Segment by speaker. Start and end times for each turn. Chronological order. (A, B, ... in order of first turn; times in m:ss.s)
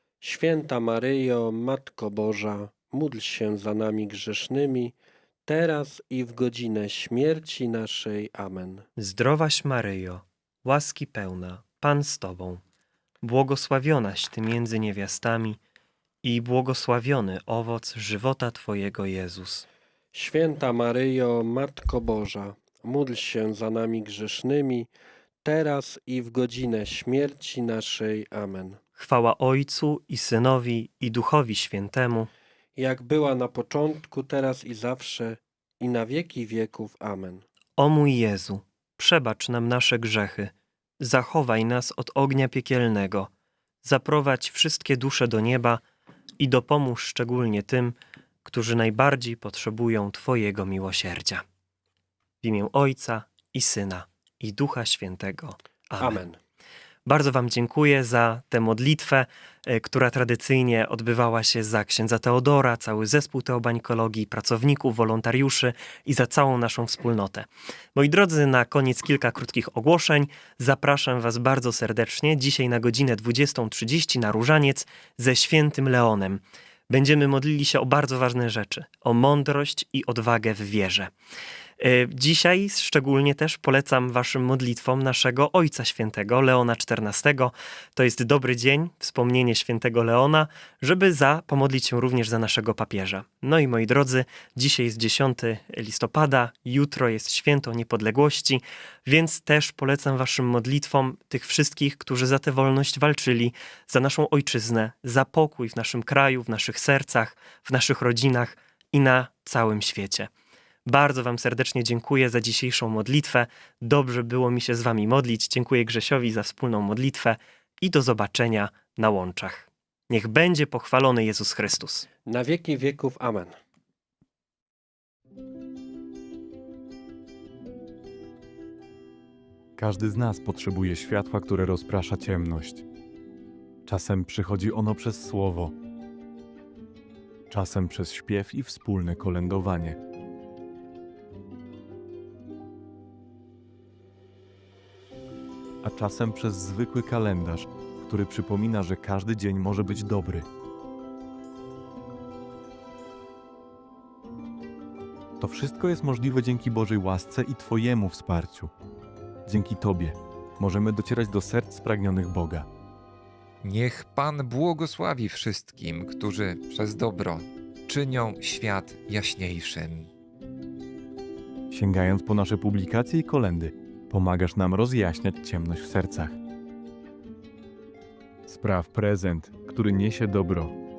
0:00.2-0:04.9 A
0:05.5-0:08.8 A
0:09.0-0:12.6 B
0:13.2-0:15.6 B
0:16.2-0:19.7 B
0:20.1-0:24.9 A
0:25.4-0:28.8 A
0:29.0-0:32.3 B
0:32.8-0:37.4 A
0:37.8-0:43.3 B
0:43.8-0:45.8 B
0:46.4-0:51.4 B
0:52.4-0:56.2 B
0:56.0-0:56.4 A
0:57.0-1:21.1 B
1:21.8-1:50.3 B
1:50.8-2:02.1 B
2:02.3-2:03.5 A
2:09.8-2:12.8 C
2:13.8-2:15.7 C
2:17.5-2:20.0 C
2:25.8-2:30.4 C
2:35.4-2:38.7 C
2:39.5-2:42.7 C
2:43.6-2:50.1 D
2:51.7-2:56.4 C
2:58.5-3:00.8 C